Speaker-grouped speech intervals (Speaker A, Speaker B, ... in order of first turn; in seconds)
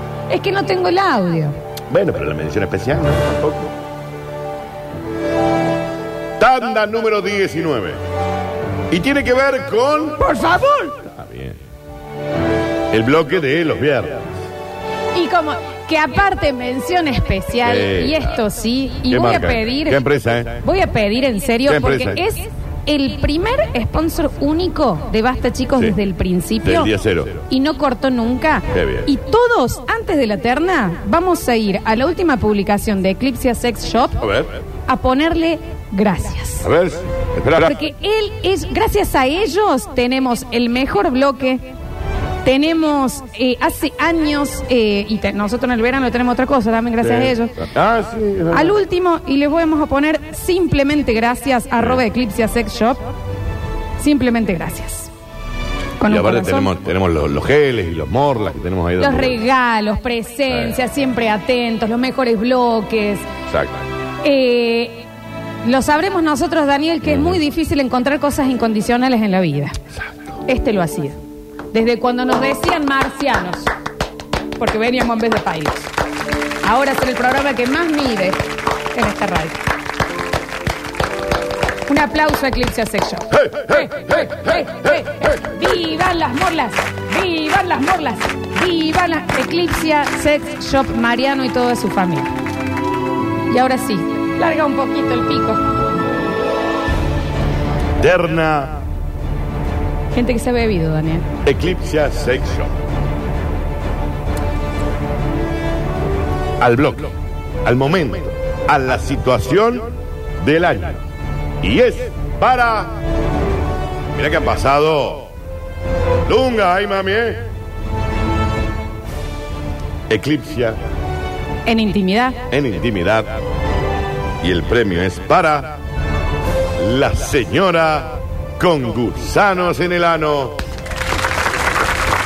Speaker A: 0.3-1.6, 10.2-11.0, 15.1-20.0, 20.6-26.9, 27.5-34.2, 34.9-36.7, 37.6-41.6, 42.4-47.7, 48.5-53.0, 54.0-55.1, 56.0-56.7, 59.0-63.3, 64.2-65.0, 65.6-69.8, 70.5-71.2, 71.7-73.7, 74.6-75.9, 76.6-78.4, 78.9-79.6, 81.9-92.3, 93.5-95.6, 100.1-101.2, 121.7-122.4
Speaker B: 1.9-3.7, 6.4-8.0, 8.9-10.2, 11.1-11.6, 12.9-14.2, 17.6-18.3, 19.1-20.6, 21.6-22.2, 26.6-27.4, 28.7-29.1, 34.2-34.5, 36.6-37.8, 47.0-48.8, 56.0-59.4, 63.5-63.8, 67.0-67.4, 83.4-84.4, 98.0-98.8, 101.4-102.7, 106.6-107.1, 107.6-111.0, 111.6-112.9, 114.1-115.3, 116.3-117.4, 120.1-120.8, 122.5-123.3, 124.4-125.8, 126.8-130.6